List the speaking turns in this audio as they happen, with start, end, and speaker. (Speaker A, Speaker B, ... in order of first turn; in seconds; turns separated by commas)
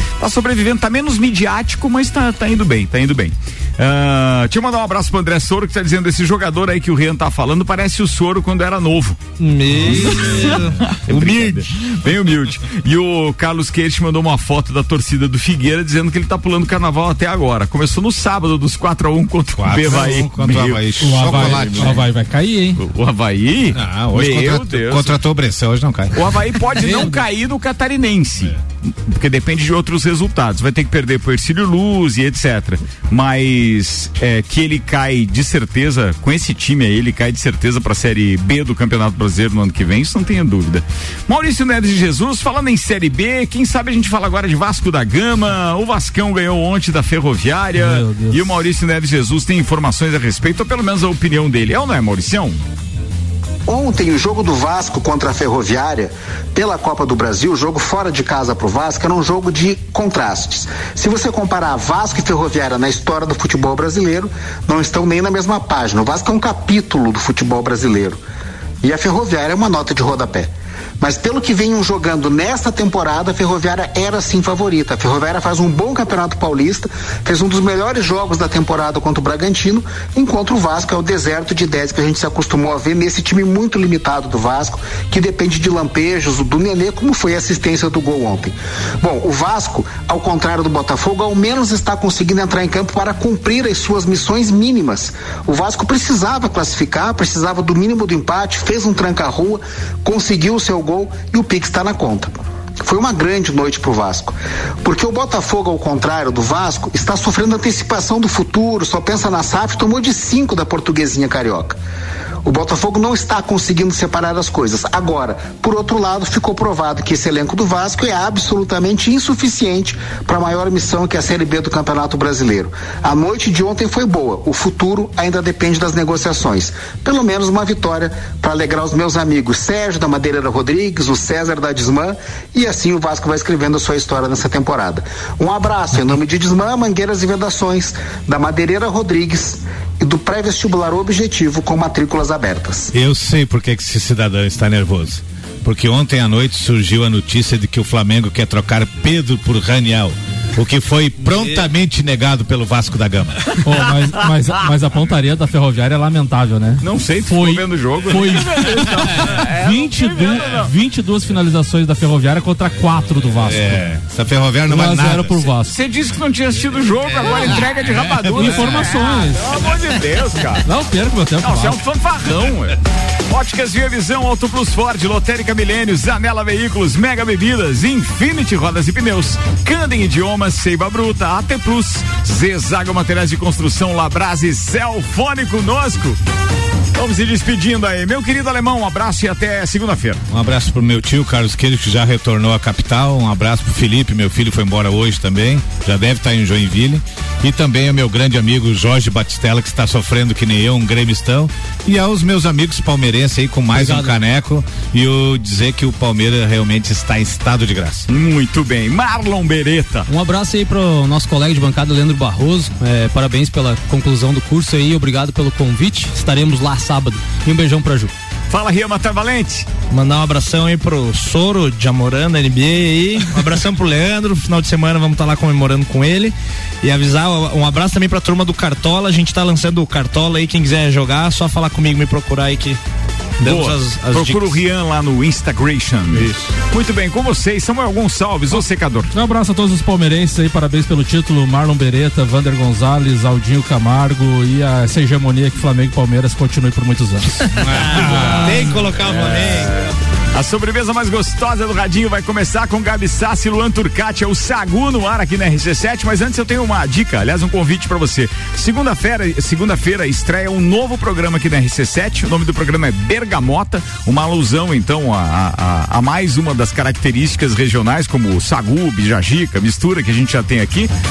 Speaker A: 0.2-9.2, Speaker B: 9.4-11.7, Speaker A: 9.8-22.0, Speaker C: 19.6-22.0, Speaker D: 21.0-22.8, Speaker A: 22.8-25.1, Speaker C: 23.7-26.2, Speaker A: 26.1-52.6, Speaker D: 47.7-48.5, Speaker E: 53.7-68.2, Speaker E: 68.8-102.3, Speaker E: 102.8-111.8, Speaker E: 112.4-142.9, Speaker C: 142.9-153.4, Speaker B: 151.2-151.6, Speaker D: 153.6-163.8, Speaker A: 156.8-160.7, Speaker C: 163.4-165.5, Speaker D: 164.7-165.7, Speaker A: 165.7-170.7, Speaker C: 167.1-168.9, Speaker D: 168.3-169.5, Speaker D: 170.6-171.8, Speaker A: 171.4-186.2, Speaker A: 186.9-190.2, Speaker C: 190.3-208.1, Speaker F: 203.7-204.2, Speaker A: 208.1-210.1, Speaker F: 210.1-218.1, Speaker A: 218.5-219.7, Speaker B: 219.9-232.8, Speaker B: 233.4-234.6, Speaker A: 233.4-239.1, Speaker B: 236.1-236.5, Speaker D: 239.1-247.3, Speaker B: 247.4-249.9, Speaker C: 247.5-248.8, Speaker A: 249.1-249.7, Speaker A: 250.3-270.9